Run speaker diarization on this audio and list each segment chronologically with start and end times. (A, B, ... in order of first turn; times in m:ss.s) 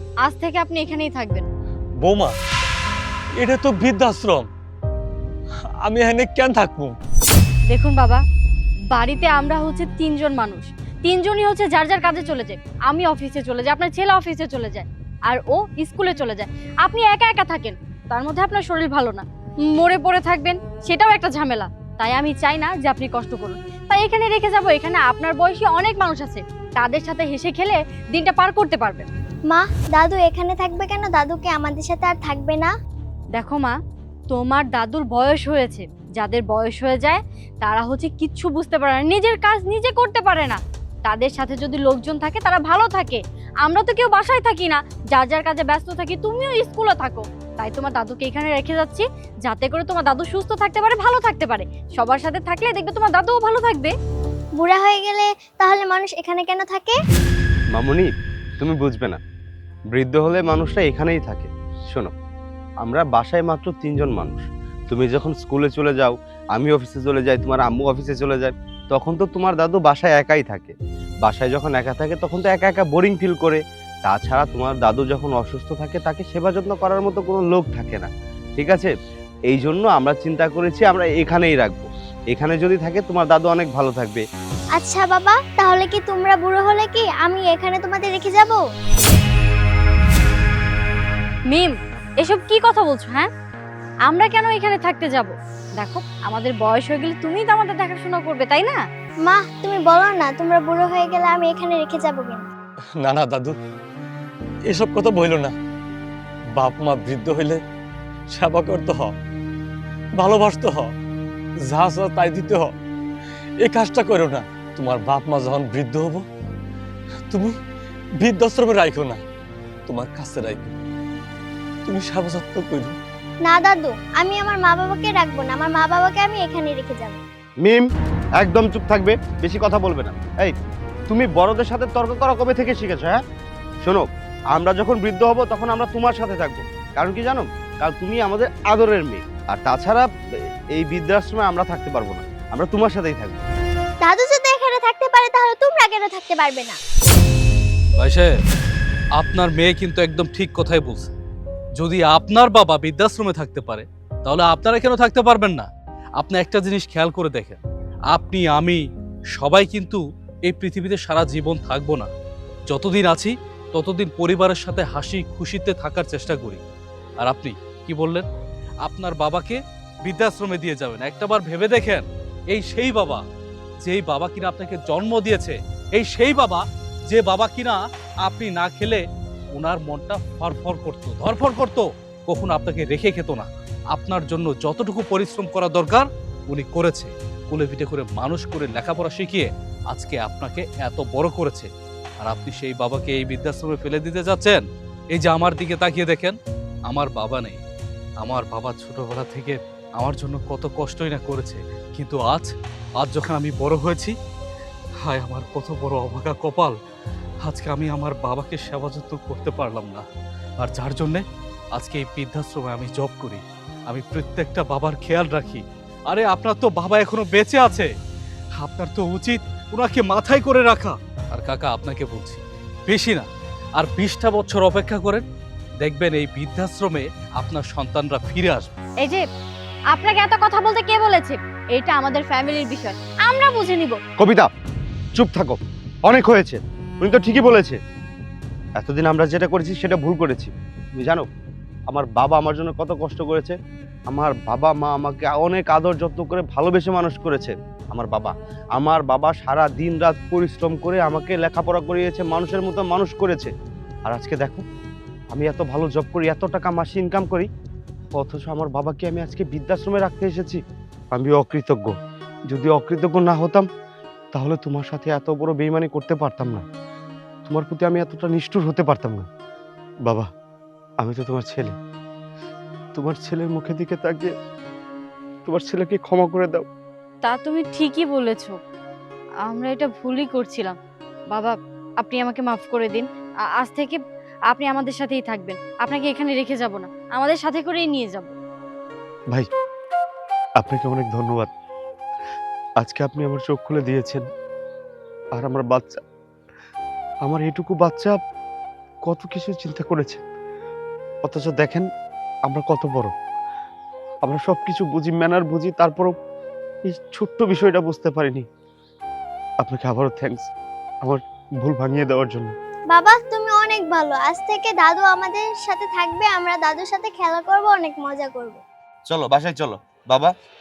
0:00.2-0:01.5 A
0:02.0-0:02.3 B
0:03.4-0:04.5 B
0:05.8-0:07.0 B
0:07.7-0:08.2 A
0:08.9-0:29.1 A
0:29.5-0:32.7 C
0:33.4-0:33.8 A
0:34.3-0:53.9 A
0:54.6-0:57.0 C
0:57.7-0:58.1 D
0:58.6-0:59.2 D
0:59.9-1:02.1 D
1:02.8-1:18.9 D
1:19.5-1:24.2 D
1:24.8-1:28.6 C
1:31.5-1:33.3 A
1:34.1-1:38.8 A
1:39.2-1:42.5 C
1:43.0-1:43.6 B
1:44.7-1:45.6 B
1:46.6-1:47.6 B
1:48.3-1:49.1 B
1:50.2-1:50.9 B
1:51.6-1:52.7 B
1:53.6-1:56.3 B
1:57.3-1:57.6 B
1:58.2-1:59.2 B
1:59.9-2:00.8 B
2:01.8-2:03.0 B
2:03.4-2:07.2 C
2:08.4-2:10.6 D
2:11.1-2:13.2 D
2:13.8-2:20.1 D
2:20.7-2:23.4 D
2:24.0-2:26.8 C
2:28.0-2:28.3 E
2:29.2-2:31.1 E
2:31.8-2:37.6 E
2:38.1-2:38.8 E
2:39.4-2:42.1 E
2:42.7-2:46.6 E
2:47.2-2:48.2 E
2:48.8-2:53.2 E
2:53.8-2:59.0 E
2:59.6-3:11.7 E
3:12.2-3:16.4 E
3:16.9-3:17.6 E
3:18.2-3:24.2 E
3:25.0-3:26.8 E
3:27.4-3:30.0 E
3:30.6-3:31.2 E
3:31.8-3:37.9 E
3:38.6-3:45.2 E
3:45.8-3:48.7 E
3:49.9-3:54.0 A
3:54.2-3:54.5 D
3:55.2-3:57.8 D
3:58.8-4:01.3 D
4:01.9-4:03.6 D
4:04.1-4:13.5 D
4:14.1-4:14.6 D
4:15.3-4:17.5 D
4:18.1-4:20.6 D
4:21.1-4:21.9 D
4:22.5-4:23.7 D
4:24.3-4:26.6 D
4:27.5-4:29.2 D
4:31.0-4:31.8 D
4:33.0-4:34.3 D
4:35.5-4:36.7 D
4:37.2-4:38.6 A
4:39.5-4:40.8 A
4:41.3-4:43.1 A
4:43.6-4:44.0 A
4:44.5-4:48.3 A
4:50.6-4:51.5 D
4:52.8-4:54.2 D
4:55.4-4:56.0 D
4:57.3-4:58.2 D
4:59.1-5:00.2 D
5:01.3-5:01.9 D
5:02.5-5:03.1 D
5:04.2-5:06.1 D
5:06.9-5:08.4 D
5:09.6-5:10.5 D
5:11.0-5:12.5 D
5:12.9-5:18.6 C
5:19.1-5:20.3 D